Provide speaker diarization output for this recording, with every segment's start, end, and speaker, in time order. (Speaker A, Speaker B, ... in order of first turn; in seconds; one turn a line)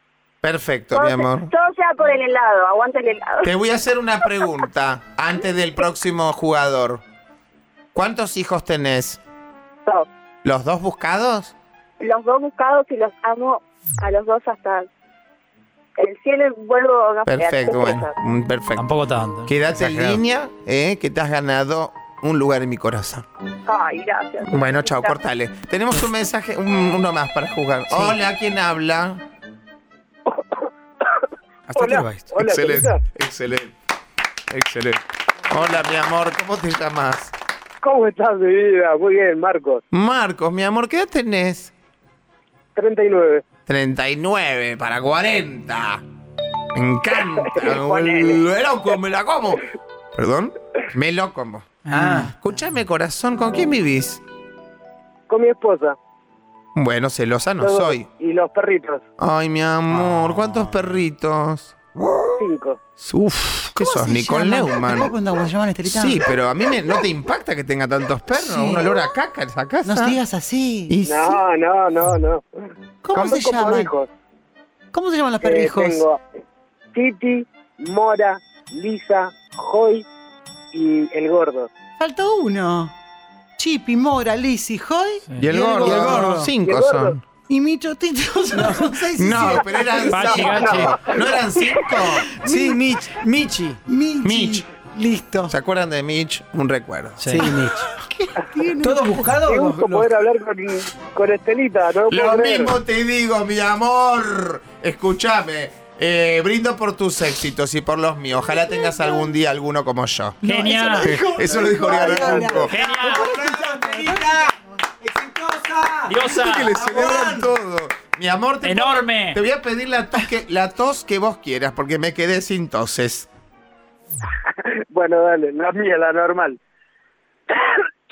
Speaker A: 0.4-1.5
Speaker B: 0.9-3.5
Speaker A: 3.4-7.0
Speaker A: 7.9-9.2
Speaker A: 10.4-11.5
Speaker B: 12.0-14.9
Speaker B: 16.0-18.1
Speaker A: 17.3-18.9
Speaker C: 18.8-20.1
Speaker A: 19.5-23.2
Speaker B: 23.7-25.1
Speaker A: 24.4-29.2
Speaker D: 31.7-32.4
Speaker E: 31.8-33.0
Speaker A: 32.4-33.7
Speaker A: 34.5-37.3
Speaker E: 37.8-39.8
Speaker A: 39.9-41.7
Speaker E: 42.8-43.4
Speaker A: 43.7-46.0
Speaker A: 46.8-49.6
Speaker E: 47.4-48.4
Speaker A: 50.2-51.7
Speaker C: 51.9-52.3
Speaker D: 51.9-52.3
Speaker A: 52.4-54.2
Speaker E: 55.3-56.0
Speaker A: 56.8-58.1
Speaker E: 57.6-59.0
Speaker A: 59.2-62.4
Speaker E: 62.4-62.8
Speaker A: 63.0-65.1
Speaker F: 63.8-66.3
Speaker A: 65.8-70.2
Speaker F: 68.3-69.0
Speaker F: 69.8-71.0
Speaker A: 70.9-71.3
Speaker E: 71.1-72.4
Speaker F: 73.0-73.9
Speaker E: 73.2-74.1
Speaker F: 74.9-76.0
Speaker E: 75.4-76.2
Speaker E: 77.0-80.0
Speaker E: 80.7-81.7
Speaker F: 82.0-82.9
Speaker F: 83.6-86.5
Speaker A: 85.4-87.2
Speaker D: 85.8-86.5
Speaker E: 86.6-87.2
Speaker F: 87.5-90.8
Speaker D: 88.5-88.8
Speaker A: 89.2-92.3
Speaker C: 90.1-91.0
Speaker E: 90.3-91.4
Speaker F: 92.0-92.8
Speaker D: 92.4-93.8
Speaker F: 93.9-95.5
Speaker A: 94.2-94.7
Speaker A: 95.5-97.5
Speaker C: 97.2-97.5
Speaker D: 97.3-97.8
Speaker F: 97.9-99.4
Speaker D: 98.8-100.2
Speaker E: 99.5-102.8
Speaker A: 102.1-110.4
Speaker F: 110.4-114.5
Speaker C: 110.4-111.1
Speaker A: 111.0-112.7
Speaker E: 111.8-112.9
Speaker C: 112.6-113.3
Speaker D: 113.0-117.5
Speaker C: 116.1-116.8
Speaker A: 116.3-123.3
Speaker C: 118.6-119.4
Speaker E: 124.9-126.6